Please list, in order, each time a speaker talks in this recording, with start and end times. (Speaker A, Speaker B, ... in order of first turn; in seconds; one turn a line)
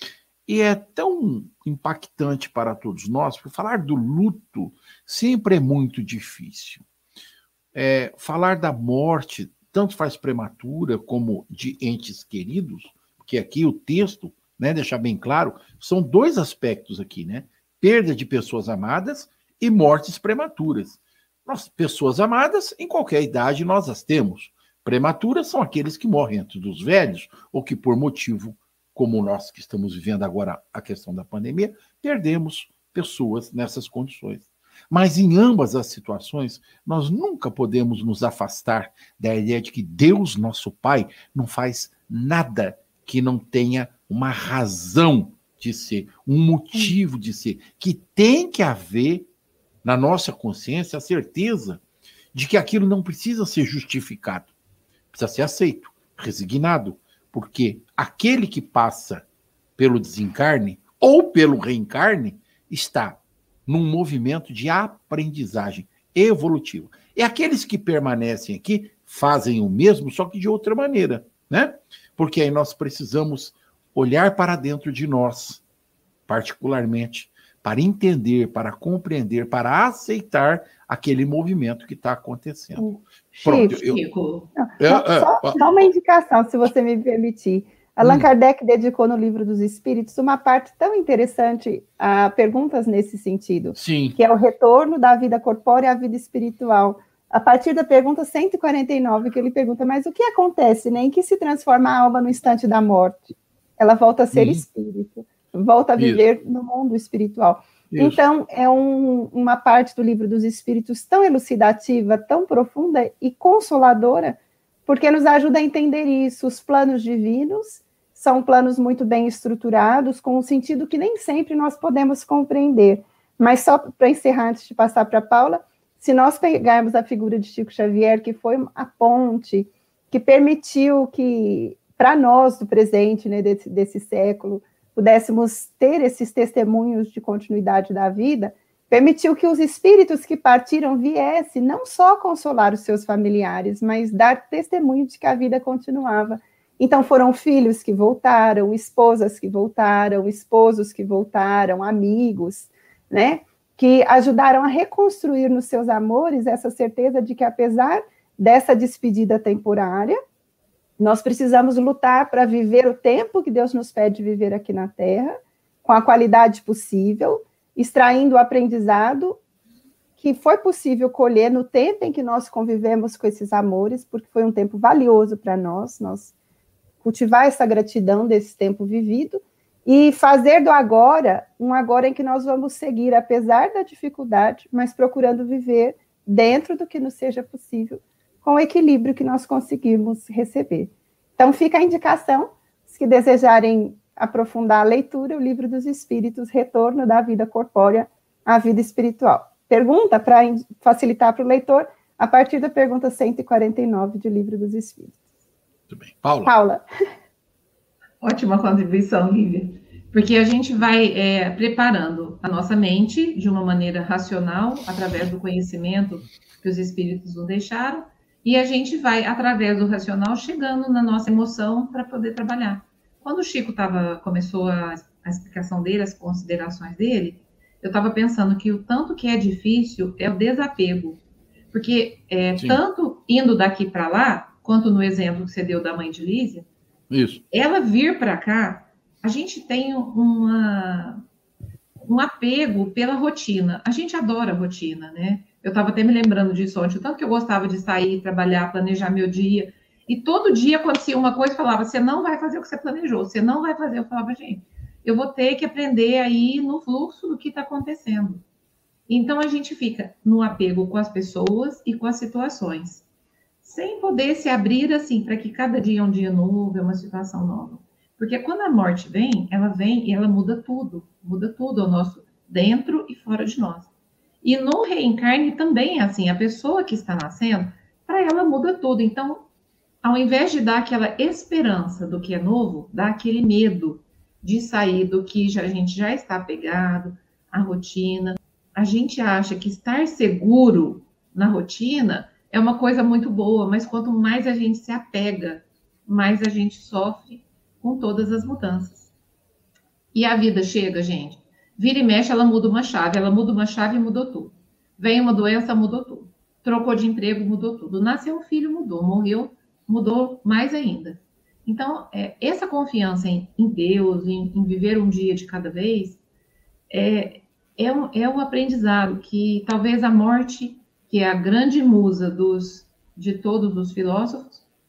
Speaker A: 0.5-6.8
Speaker A: 7.7-49.3
Speaker A: 49.8-51.8
Speaker A: 52.3-54.5
Speaker A: 55.1-59.2
Speaker A: 59.8-75.6
Speaker A: 76.3-82.9
Speaker B: 82.8-83.8
Speaker A: 83.5-84.0
Speaker C: 83.8-84.5
Speaker B: 84.6-160.2
Speaker A: 84.8-85.6
Speaker A: 88.0-88.3
Speaker A: 93.8-94.2
Speaker A: 104.3-104.6
Speaker A: 106.0-106.3
Speaker A: 107.9-108.2
Speaker B: 161.0-169.4
Speaker B: 170.2-176.3
Speaker B: 177.0-205.2
Speaker A: 205.9-206.5
Speaker B: 206.5-206.8
Speaker C: 208.2-231.2
Speaker C: 231.7-236.7
Speaker A: 237.1-237.4
Speaker C: 237.5-241.2
Speaker C: 242.0-258.4
Speaker C: 259.1-263.1
Speaker C: 263.6-273.9
Speaker C: 274.4-279.4
Speaker C: 280.0-299.1
Speaker C: 300.1-316.2
Speaker C: 316.9-324.6